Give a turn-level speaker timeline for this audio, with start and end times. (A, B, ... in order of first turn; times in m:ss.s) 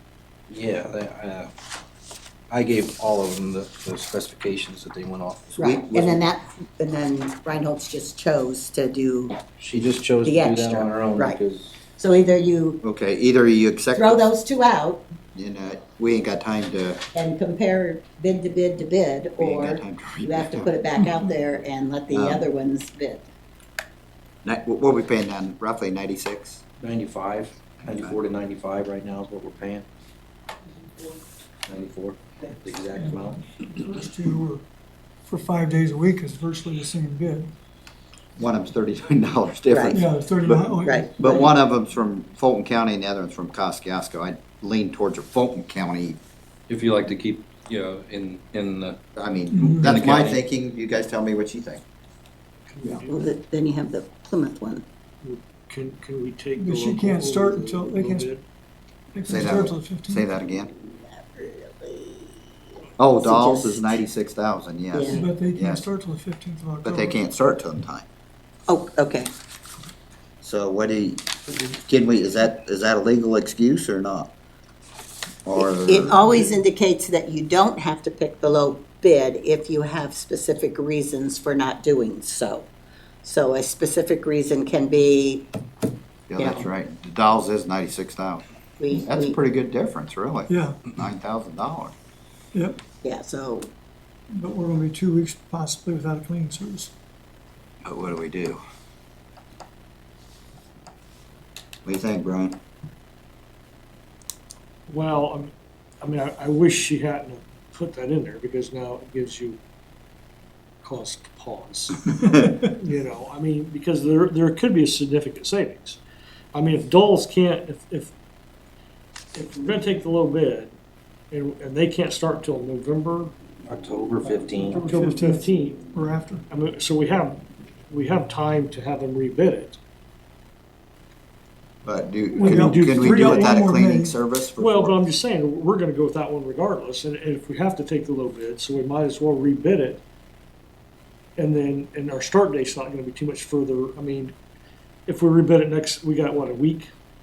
0:00.5-0:01.5 A
0:02.5-0:05.5 A
0:05.5-0:06.2 B
0:05.6-0:09.4 C
0:09.6-0:11.8 A
0:10.2-0:11.4 C
0:11.9-0:12.8 C
0:12.8-0:14.3 B
0:13.9-0:15.0 C
0:15.3-0:17.0 B
0:17.1-0:23.2 C
0:19.4-0:20.7 B
0:22.1-0:22.4 B
0:24.4-0:26.6 B
0:26.8-0:29.8 A
0:27.8-0:28.2 B
0:31.7-0:33.4 A
0:32.9-0:34.6 D
0:35.3-0:37.5 D
0:38.4-0:46.2 B
0:39.7-0:40.0 C
0:39.9-0:41.5 D
0:40.8-0:41.4 C
0:46.7-0:49.0 A
0:49.2-0:51.8 B
0:49.5-0:49.9 D
0:49.7-0:50.4 A
0:52.7-0:53.3 E
0:53.1-0:54.8 C
0:55.2-0:58.4 E
0:56.6-0:58.3 D
0:59.1-1:00.2 D
0:59.2-1:00.7 B
1:00.8-1:02.5 C
1:03.0-1:05.8 B
1:03.2-1:04.0 C
1:04.9-1:05.2 C
1:05.1-1:07.2 D
1:06.8-1:08.0 B
1:08.7-1:09.3 C
1:10.4-1:14.3 B
1:15.4-1:16.2 B
1:15.5-1:22.7 C
1:23.2-1:25.5 C
1:26.3-1:31.9 B
1:26.4-1:26.6 C
1:28.8-1:29.3 C
1:30.5-1:30.8 D
1:32.5-1:32.8 D
1:33.0-1:33.7 C
1:34.3-1:36.9 D
1:37.8-1:38.6 B
1:41.8-1:42.6 B
1:44.9-1:49.6 E
1:50.8-1:56.0 E
1:56.5-1:58.1 E
1:59.3-2:00.7 E
2:01.3-2:03.3 E
2:03.7-2:04.9 A
2:04.7-2:05.9 E
2:04.7-2:06.4 D
2:06.5-2:09.8 E
2:11.8-2:15.0 B
2:12.4-2:14.1 D
2:12.4-2:13.7 E
2:14.6-2:20.0 E
2:21.4-2:24.3 E
2:25.1-2:26.9 E